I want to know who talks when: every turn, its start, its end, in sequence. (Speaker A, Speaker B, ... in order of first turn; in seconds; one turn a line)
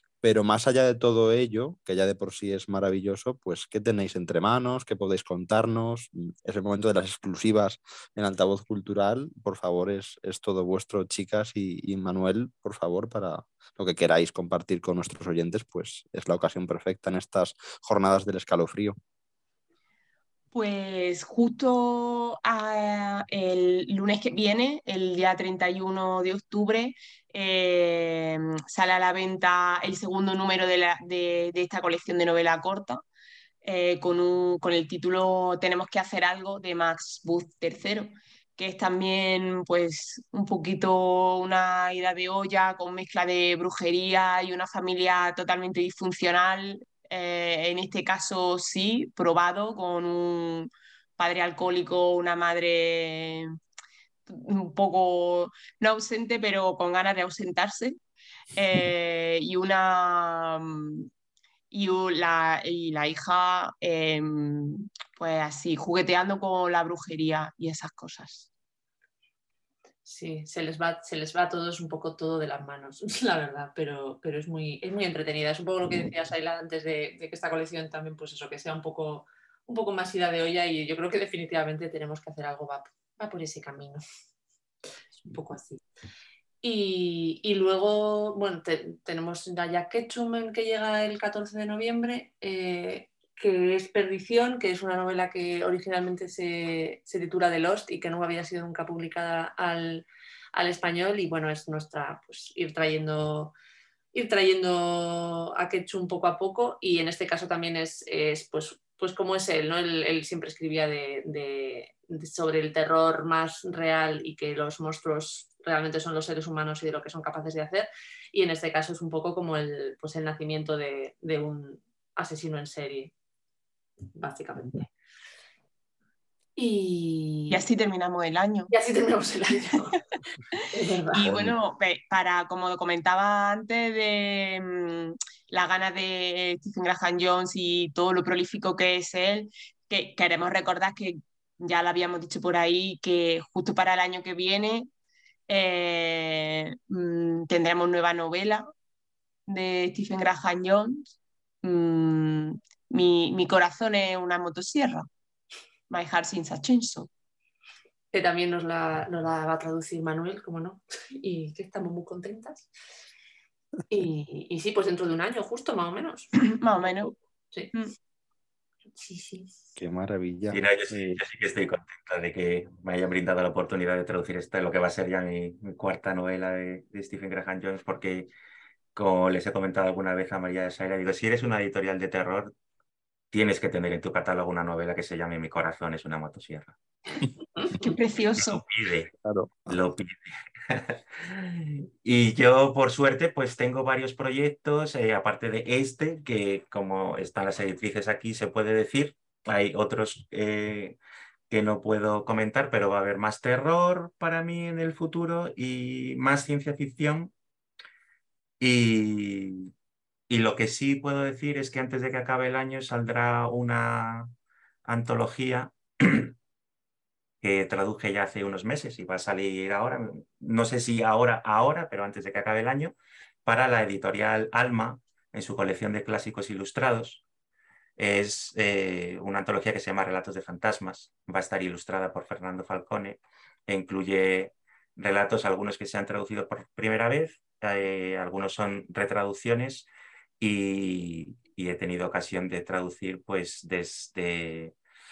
Speaker A: 0.2-18.9
Speaker B: 20.5-33.0
Speaker B: 33.6-53.5
Speaker B: 54.3-58.0
Speaker B: 58.5-61.1
Speaker B: 61.7-68.5
Speaker C: 70.0-84.0
Speaker C: 85.3-85.8
Speaker C: 86.6-103.5
Speaker C: 104.1-123.1
Speaker C: 124.1-124.9
Speaker C: 126.6-127.6
Speaker B: 127.5-128.7
Speaker C: 128.7-130.0
Speaker C: 130.7-131.3
Speaker B: 131.1-144.9
Speaker A: 131.2-131.5
Speaker B: 145.5-148.7
Speaker B: 149.5-151.1
Speaker B: 151.6-155.1
Speaker B: 155.9-157.1
Speaker C: 158.1-162.7
Speaker C: 163.9-166.3
Speaker B: 166.5-167.1
Speaker C: 166.8-167.7
Speaker C: 168.9-169.5
Speaker A: 169.8-171.2
Speaker D: 170.5-178.3
Speaker D: 178.9-182.5
Speaker D: 183.3-186.8
Speaker B: 187.7-188.6
Speaker D: 188.4-189.1
Speaker A: 189.2-189.8
Speaker D: 189.7-201.0
Speaker D: 201.5-207.3
Speaker D: 208.6-209.7
Speaker D: 210.3-214.3
Speaker D: 214.8-216.3
Speaker D: 217.4-227.2
Speaker D: 228.0-239.9
Speaker D: 240.4-244.7